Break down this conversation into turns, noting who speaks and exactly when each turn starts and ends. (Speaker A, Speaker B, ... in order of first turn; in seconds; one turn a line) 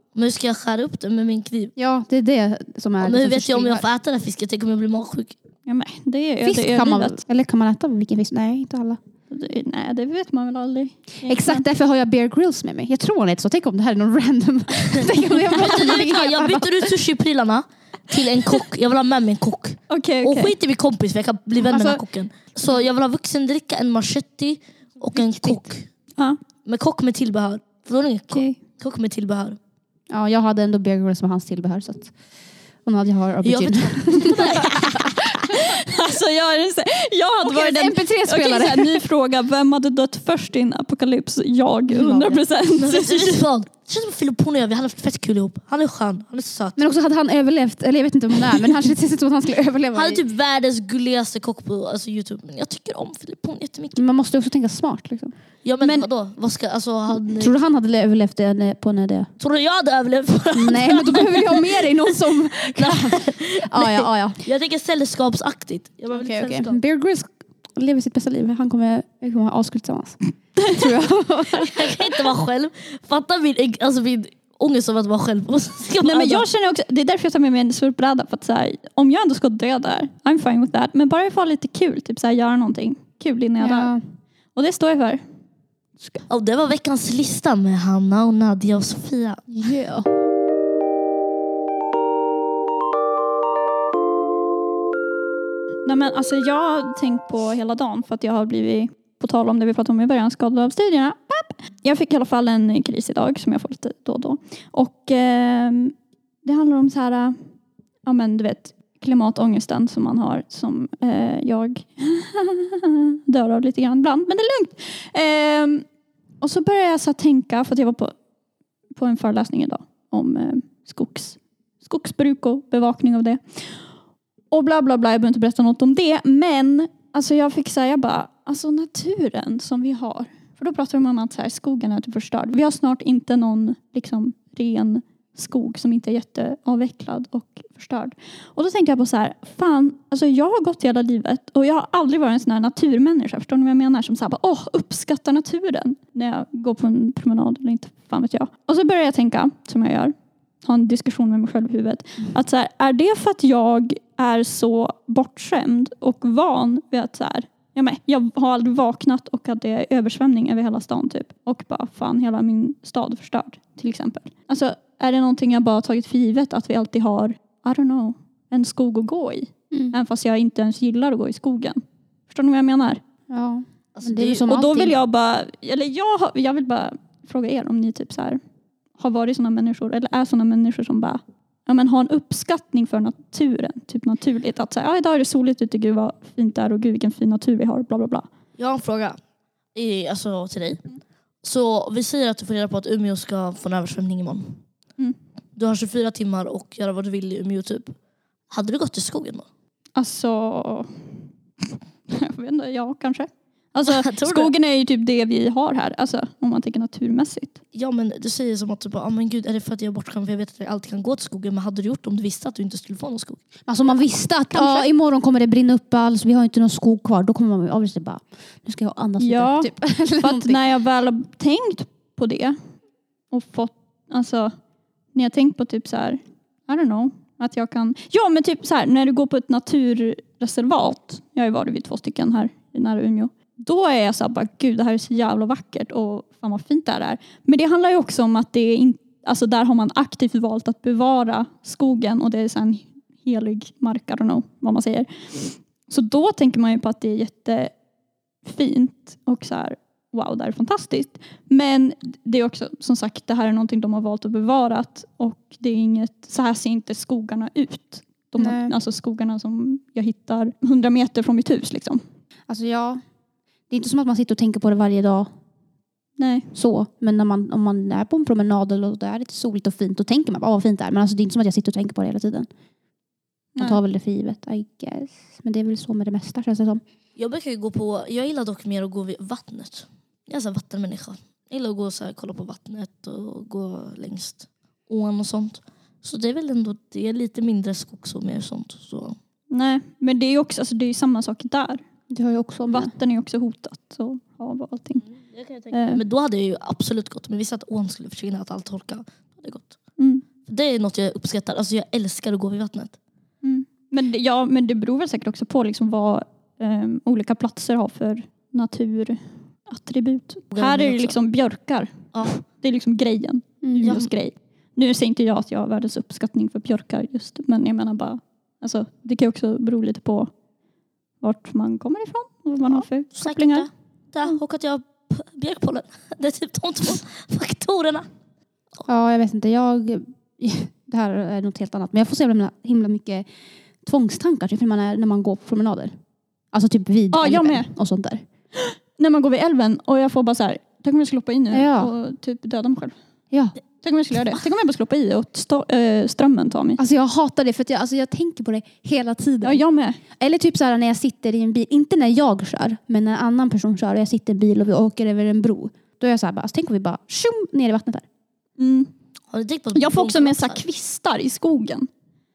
Speaker A: 0.1-1.7
Speaker B: 1.8-3.9
Speaker A: 3.0-5.4
Speaker C: 5.7-7.2
Speaker B: 6.4-9.0
Speaker C: 9.3-11.6
Speaker B: 11.2-16.9
Speaker A: 14.8-25.9
Speaker C: 19.9-20.6
Speaker B: 21.7-22.0
Speaker B: 25.1-25.7
Speaker A: 26.6-29.6
Speaker C: 28.3-28.6
Speaker B: 30.1-32.1
Speaker B: 32.9-35.6
Speaker A: 33.4-35.2
Speaker C: 35.5-43.4
Speaker B: 37.4-39.0
Speaker B: 41.9-42.4
Speaker A: 42.8-46.8
Speaker B: 46.8-50.2
Speaker A: 49.9-54.0
Speaker B: 54.0-55.4
Speaker A: 55.6-57.6
Speaker C: 55.8-56.1
Speaker B: 57.4-59.3
Speaker A: 59.4-61.9
Speaker B: 60.5-64.4
Speaker A: 62.8-66.8
Speaker B: 66.1-72.2
Speaker C: 70.6-70.9
Speaker A: 71.6-76.5
Speaker C: 76.0-84.0
Speaker B: 83.6-84.0
Speaker C: 84.5-85.2
Speaker C: 86.0-86.2
Speaker A: 86.3-89.4
Speaker B: 89.5-90.1
Speaker C: 95.8-107.4
Speaker C: 108.1-115.8
Speaker C: 116.4-118.2
Speaker C: 118.9-123.9
Speaker C: 124.5-173.0
Speaker B: 169.7-170.0
Speaker B: 173.3-175.0
Speaker A: 173.9-174.4
Speaker C: 174.5-178.4
Speaker C: 179.0-188.3
Speaker A: 188.6-189.2
Speaker A: 189.8-190.8
Speaker A: 191.4-194.6
Speaker A: 195.6-198.0
Speaker A: 198.5-199.5
Speaker C: 200.0-207.6
Speaker A: 203.8-204.5
Speaker A: 207.7-213.4
Speaker B: 213.7-220.6
Speaker C: 214.5-214.9
Speaker C: 219.2-222.6
Speaker C: 223.3-224.5
Speaker C: 225.2-247.8
Speaker C: 248.4-262.0
Speaker B: 258.4-258.8
Speaker B: 262.5-263.0
Speaker B: 263.7-265.3
Speaker C: 266.2-266.5
Speaker B: 266.5-272.5
Speaker C: 273.6-273.8
Speaker B: 273.6-276.8
Speaker A: 277.2-289.2
Speaker C: 289.5-291.9
Speaker B: 292.1-292.9
Speaker C: 292.7-295.1
Speaker A: 295.1-299.8
Speaker C: 295.7-296.0
Speaker C: 300.0-300.2
Speaker A: 300.4-303.0
Speaker C: 303.4-320.3
Speaker A: 310.5-311.2
Speaker B: 313.6-313.9
Speaker A: 313.8-314.1
Speaker C: 321.2-323.7
Speaker A: 322.7-328.1
Speaker B: 328.9-333.3
Speaker B: 333.8-336.0
Speaker B: 336.5-338.2
Speaker C: 337.1-337.7
Speaker C: 338.5-343.0
Speaker B: 341.5-341.9
Speaker B: 343.3-343.6
Speaker C: 343.8-346.8
Speaker B: 346.8-349.6
Speaker C: 349.4-350.0
Speaker B: 350.2-358.1
Speaker C: 358.6-358.9
Speaker A: 359.3-360.6
Speaker C: 359.8-361.9